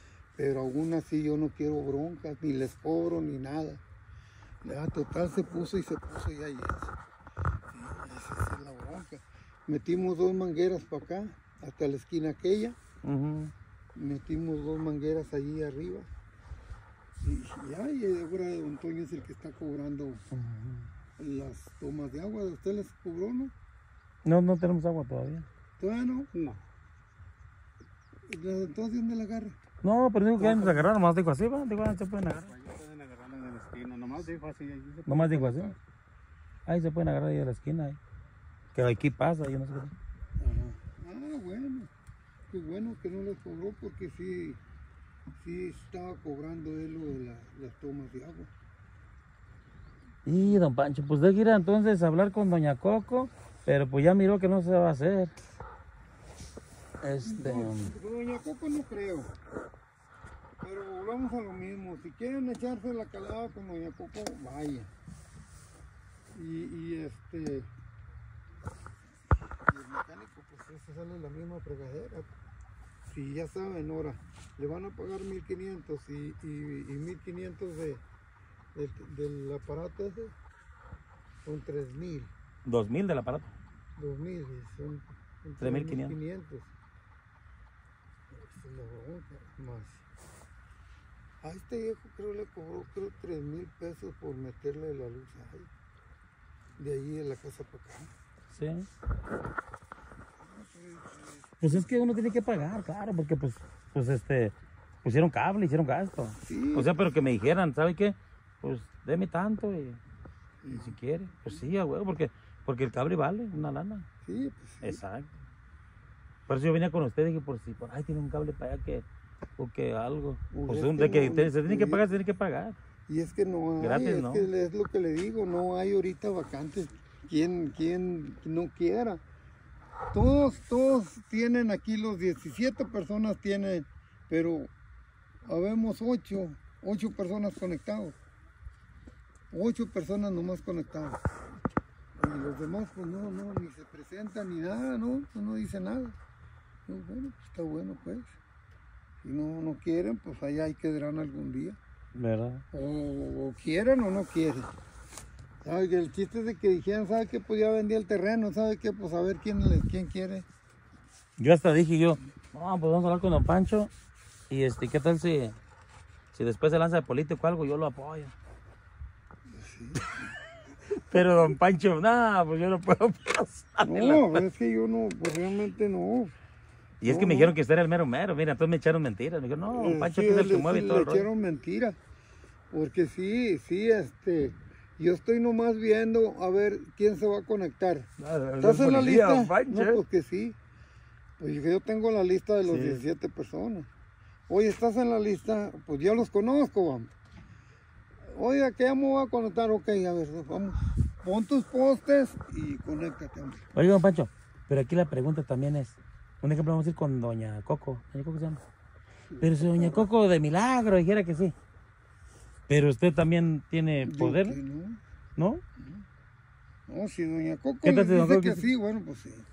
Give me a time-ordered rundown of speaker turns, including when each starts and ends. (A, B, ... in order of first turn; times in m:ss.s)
0:00.4-0:03.8 A
0:04.6-0:06.9 A
0:07.7-0:12.8 A
0:13.0-0:13.5 B
0:14.0-0:16.1 A
0:17.2-0:20.2 A
0:20.3-0:20.9 B
0:21.2-0:23.5 A
0:24.2-0:25.5 B
0:25.8-0:26.3 A
0:26.3-0:26.6 C
0:28.3-0:29.6 A
0:29.8-0:32.5 B
0:30.4-0:30.7 A
0:32.5-0:35.8 C
0:35.1-0:35.7 B
0:36.7-0:38.0 B
0:38.8-0:39.9 B
0:40.4-0:41.9 A
0:42.5-0:44.6 A
0:45.4-0:48.5 A
0:50.2-0:55.3 B
0:57.0-0:57.9 B
0:57.2-0:59.3 A
1:00.6-1:04.9 A
1:06.3-1:07.7 A
1:09.5-1:12.3 A
1:13.1-1:18.0 A
1:18.8-1:20.3 A
1:21.4-1:22.3 A
1:22.6-1:23.5 B
1:24.0-1:26.7 A
1:25.6-1:26.2 B
1:28.3-1:30.0 A
1:31.4-1:35.7 A
1:36.8-1:38.1 A
1:38.5-1:38.9 B
1:40.4-1:41.8 A
1:41.6-1:50.0 B
1:46.4-1:47.1 A
1:50.6-1:51.0 A
1:50.7-1:54.1 B
1:54.2-1:55.0 A
1:54.8-1:55.3 B
1:56.5-1:59.0 B
1:59.6-2:02.8 B
2:00.5-2:02.1 A
2:03.1-2:09.2 A
2:03.8-2:04.5 B
2:10.1-2:14.7 A
2:15.5-2:18.2 A
2:19.5-2:21.2 A
2:22.2-2:26.2 A
2:26.9-2:28.4 A
2:29.2-2:31.8 A
2:32.2-2:32.6 B
2:32.7-2:34.7 A
2:35.6-2:40.4 A
2:41.4-2:43.9 B
2:44.5-2:45.6 B
2:46.3-2:48.3 B
2:49.5-2:50.2 A
2:51.1-2:54.4 B
2:53.8-2:56.3 A
2:57.0-3:01.3 B
2:57.0-2:57.5 A
2:59.7-3:02.0 A
3:02.7-3:08.1 A
3:08.2-3:10.0 B
3:08.6-3:10.6 A
3:11.4-3:13.9 A
3:12.7-3:13.0 B
3:14.5-3:17.1 A
3:18.3-3:23.6 A
3:23.7-3:28.6 B
3:29.4-3:30.0 A
3:29.4-3:31.5 B
3:32.7-3:34.6 B
3:34.0-3:35.0 A
3:35.4-3:35.6 B
3:36.9-3:39.4 A
3:37.8-3:38.7 B